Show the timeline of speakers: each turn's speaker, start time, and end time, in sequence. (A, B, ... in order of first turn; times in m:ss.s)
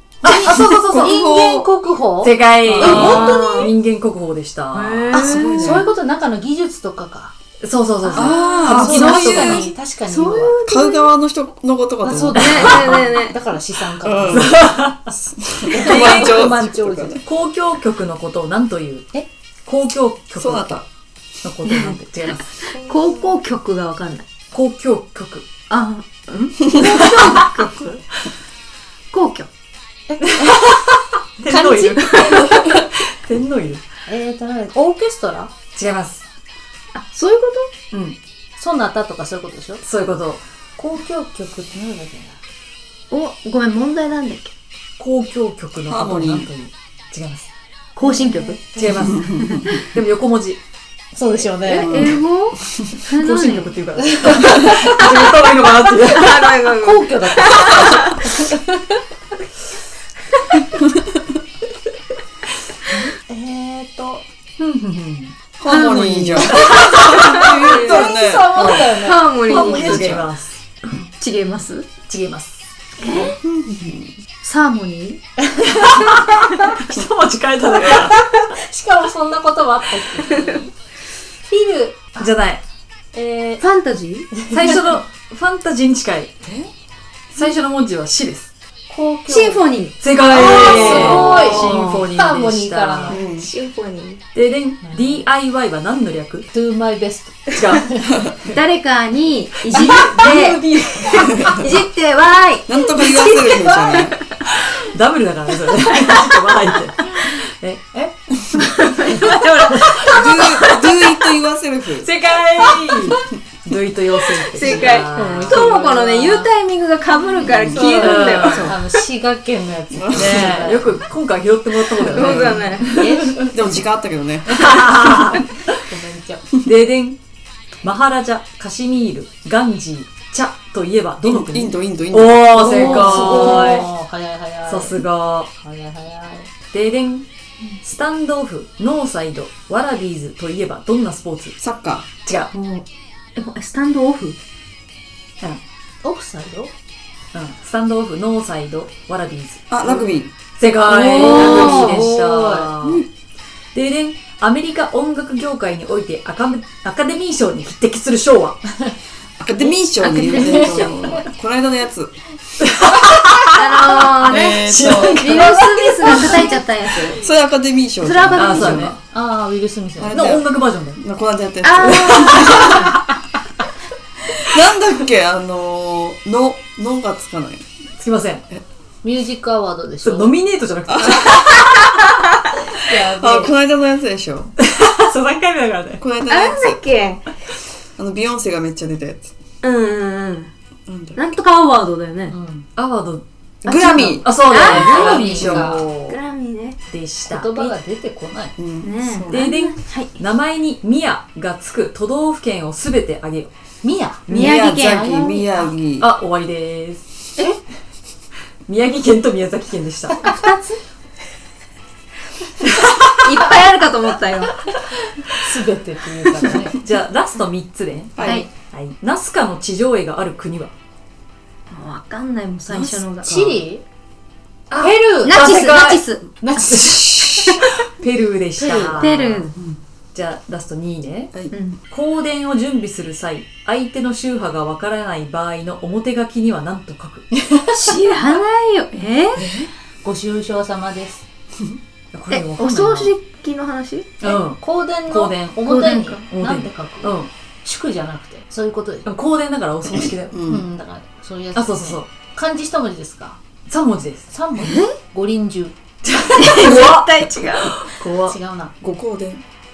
0:00.2-0:01.0 A
0:00.2-0:03.7 B
0:00.5-0:01.7 C
0:02.2-0:05.2 A
0:02.7-0:03.4 C
0:02.8-0:03.7 D
0:04.8-0:05.8 D
0:05.1-0:05.9 C
0:05.5-0:07.3 B
0:07.6-0:09.5 A
0:08.0-0:10.6 B
0:08.1-0:09.7 C
0:08.2-0:11.1 D
0:10.6-0:13.0 C
0:12.0-0:14.7 B
0:12.3-0:13.4 D
0:14.0-0:17.2 C
0:14.3-0:15.1 A
0:15.7-0:17.2 B
0:15.7-0:16.6 A
0:17.2-0:19.1 A
0:19.7-0:20.8 A
0:20.4-0:20.9 C
0:21.4-0:22.7 A
0:21.6-0:22.0 D
0:22.6-0:24.3 D
0:24.5-0:25.5 A
0:25.7-0:28.0 D
0:26.7-0:27.5 B
0:29.1-0:29.5 D
0:30.1-0:30.6 B
0:30.5-0:33.8 A
0:31.5-0:32.8 D
0:34.1-0:35.5 B
0:35.7-0:36.2 A
0:36.9-0:37.7 D
0:37.9-0:38.2 A
0:38.6-0:39.8 B
0:39.8-0:40.4 A
0:40.8-0:42.4 B
0:43.1-0:44.5 D
0:45.0-0:47.5 A
0:45.9-0:46.5 C
0:48.0-0:48.6 D
0:48.0-0:49.1 B
0:48.7-0:50.6 A
0:49.0-0:49.8 C
0:49.3-0:49.8 D
0:51.1-0:52.1 B
0:51.7-0:53.8 D
0:51.8-0:52.8 C
0:53.1-0:56.6 A
0:54.5-0:55.0 B
0:56.0-0:58.3 D
0:56.8-0:58.7 B
1:02.9-1:04.2 B
1:04.6-1:05.4 A
1:05.6-1:09.0 C
1:05.7-1:08.1 D
1:06.4-1:07.0 A
1:06.5-1:10.2 B
1:08.8-1:10.3 D
1:09.4-1:10.6 A
1:10.9-1:11.9 D
1:12.1-1:12.5 A
1:13.0-1:13.4 D
1:13.4-1:14.1 C
1:14.4-1:15.2 D
1:15.8-1:18.2 A
1:17.7-1:20.7 B
1:20.2-1:20.5 D
1:21.4-1:22.3 B
1:22.2-1:22.6 A
1:23.1-1:23.6 B
1:23.6-1:24.5 D
1:24.3-1:24.8 B
1:24.5-1:26.3 A
1:26.4-1:26.7 C
1:27.3-1:28.5 A
1:28.9-1:29.7 B
1:29.3-1:32.1 D
1:30.0-1:33.2 A
1:30.3-1:33.2 B
1:33.1-1:33.5 C
1:33.2-1:34.2 D
1:34.3-1:36.5 A
1:34.8-1:35.2 B
1:36.5-1:38.3 B
1:37.5-1:37.9 A
1:38.4-1:44.2 D
1:39.7-1:41.5 A
1:42.7-1:44.2 C
1:44.4-1:48.6 A
1:45.9-1:46.4 D
1:48.6-1:51.2 D
1:49.1-1:49.4 B
1:49.8-1:50.8 A
1:49.9-1:52.1 C
1:52.0-1:55.9 A
1:54.5-1:58.8 D
1:55.1-1:56.5 B
1:57.6-1:58.5 C
1:57.8-2:01.0 B
1:57.8-1:58.8 A
1:59.9-2:00.6 C
2:00.1-2:03.4 A
2:01.9-2:03.1 D
2:02.1-2:02.6 C
2:02.8-2:03.6 B
2:03.3-2:04.8 C
2:04.5-2:05.5 A
2:04.7-2:06.5 B
2:06.6-2:07.2 A
2:07.8-2:13.9 A
2:11.2-2:13.3 C
2:12.6-2:15.0 B
2:14.7-2:15.5 A
2:15.6-2:16.5 B
2:16.7-2:17.2 A
2:17.8-2:21.6 A
2:21.6-2:22.1 C
2:22.3-2:22.5 A
2:22.5-2:22.8 D
2:23.4-2:24.4 D
2:26.0-2:26.7 B
2:27.3-2:29.8 A
2:29.7-2:30.3 C
2:30.6-2:33.1 A
2:30.9-2:32.2 D
2:31.1-2:32.7 B
2:33.7-2:38.8 A
2:39.4-2:42.2 C
2:39.7-2:41.1 D
2:40.4-2:41.2 B
2:42.6-2:46.6 A
2:43.5-2:47.2 D
2:44.2-2:45.5 C
2:47.1-2:49.0 C
2:48.0-2:48.9 D
2:48.4-2:49.0 A
2:49.0-2:50.2 B
2:50.0-2:52.9 C
2:50.1-2:51.0 A
2:51.6-2:52.9 D
2:51.8-2:52.1 A
2:54.3-2:57.7 C
2:58.0-2:58.5 A
2:59.0-3:00.3 B
3:00.0-3:01.7 A
3:00.9-3:01.6 C
3:02.9-3:03.5 B
3:02.9-3:04.5 C
3:04.6-3:06.0 A
3:06.0-3:06.8 C
3:06.3-3:07.3 D
3:08.0-3:09.3 C
3:09.6-3:10.5 D
3:10.9-3:11.2 C
3:11.2-3:12.4 D
3:12.3-3:12.7 B
3:12.8-3:16.2 A
3:13.6-3:15.8 C
3:14.5-3:16.8 D
3:14.6-3:15.9 B
3:16.9-3:17.7 A
3:17.3-3:18.6 B
3:18.6-3:19.4 C
3:18.8-3:20.2 D
3:19.3-3:23.5 A
3:23.8-3:24.5 B
3:24.3-3:26.1 C
3:24.3-3:25.4 D
3:26.0-3:27.0 A
3:28.7-3:30.3 A
3:30.2-3:30.6 D
3:33.2-3:34.6 D
3:35.3-3:36.8 B
3:36.7-3:40.7 A
3:38.2-3:38.5 C
3:38.2-3:38.5 D
3:41.7-3:43.4 D
3:43.2-3:43.8 B
3:44.7-3:49.5 A
3:44.8-3:45.7 B
3:45.2-3:46.2 D
3:46.4-3:47.5 B
3:48.6-3:49.1 B
3:49.0-3:49.5 D
3:50.1-3:51.4 A
3:51.5-3:51.8 D
3:51.9-3:57.4 A
3:57.7-3:59.5 D
3:59.4-3:59.7 C
4:00.0-4:01.2 B
4:02.1-4:03.2 A
4:02.3-4:04.2 D
4:04.2-4:05.6 A
4:04.2-4:09.1 B
4:05.6-4:06.2 D
4:06.3-4:07.3 A
4:09.1-4:10.4 A
4:10.3-4:10.6 C
4:10.4-4:13.4 B
4:11.6-4:12.1 A
4:13.7-4:14.3 A
4:14.3-4:15.8 B
4:14.6-4:15.0 D
4:16.0-4:18.4 A
4:16.3-4:17.9 D
4:18.2-4:18.7 B
4:18.8-4:19.4 C